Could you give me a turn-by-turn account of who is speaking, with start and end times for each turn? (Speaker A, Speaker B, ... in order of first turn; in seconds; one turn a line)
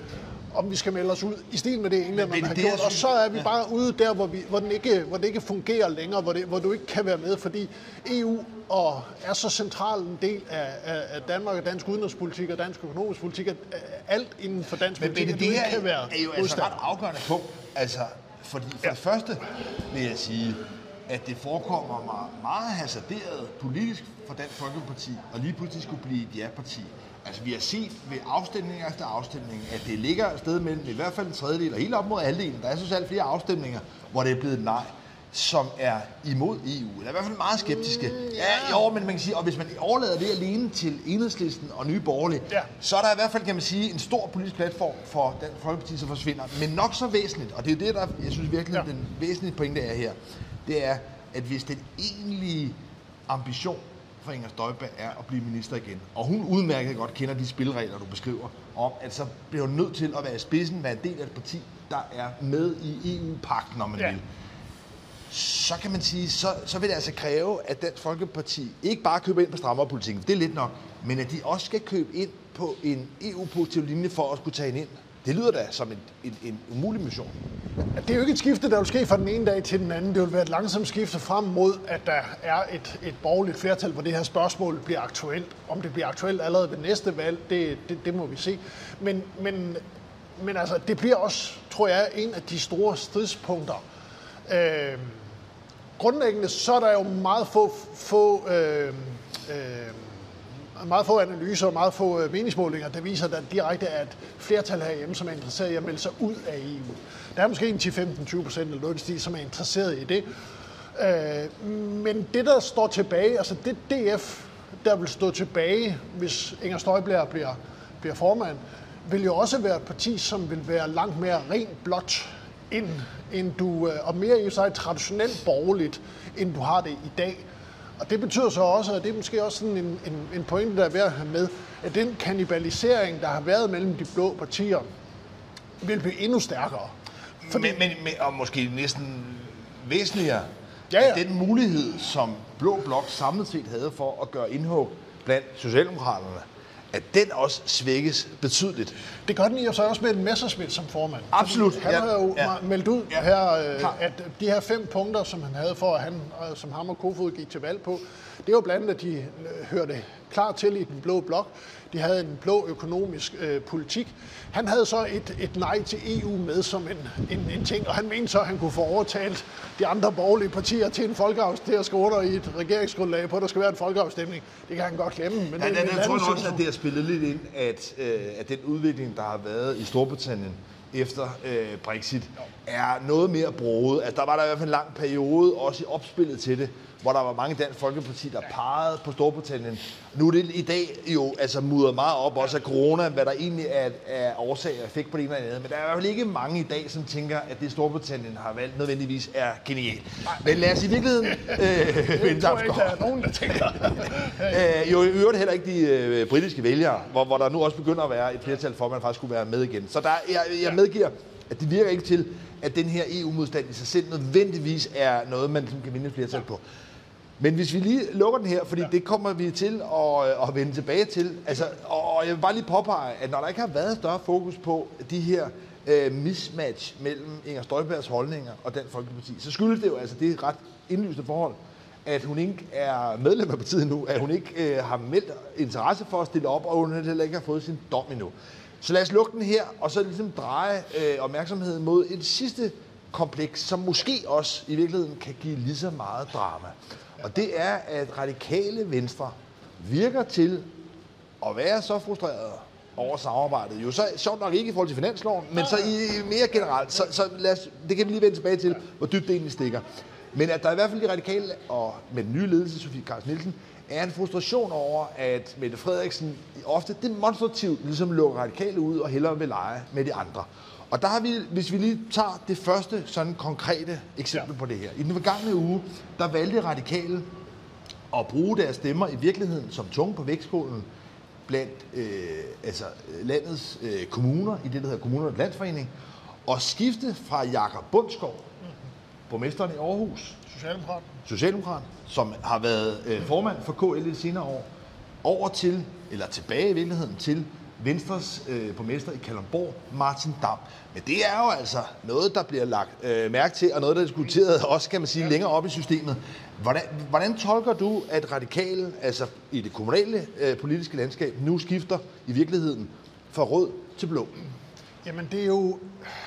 Speaker A: 0.5-16.8
Speaker B: 2.1-3.4
Speaker B: 15.0-50.1
Speaker A: 38.1-38.8
Speaker B: 50.6-52.8
Speaker B: 53.3-64.2
Speaker B: 65.3-77.3
Speaker A: 78.0-89.8
Speaker A: 90.4-93.8
Speaker A: 94.5-95.2
Speaker A: 96.0-100.2
Speaker A: 100.8-110.2
Speaker A: 110.9-127.4
Speaker A: 128.0-134.9
Speaker A: 135.8-136.9
Speaker B: 137.4-148.9
Speaker A: 140.9-141.2
Speaker A: 149.3-176.6
Speaker B: 151.3-152.5
Speaker B: 175.6-203.0
Speaker A: 202.0-204.6
Speaker B: 204.4-216.6
Speaker B: 217.4-250.7
Speaker B: 251.4-277.3
Speaker B: 278.1-280.9
Speaker B: 281.5-285.9
Speaker B: 286.4-288.4
Speaker B: 289.3-290.4
Speaker A: 290.5-291.1
Speaker B: 291.2-294.7
Speaker B: 295.2-314.4
Speaker A: 315.0-316.1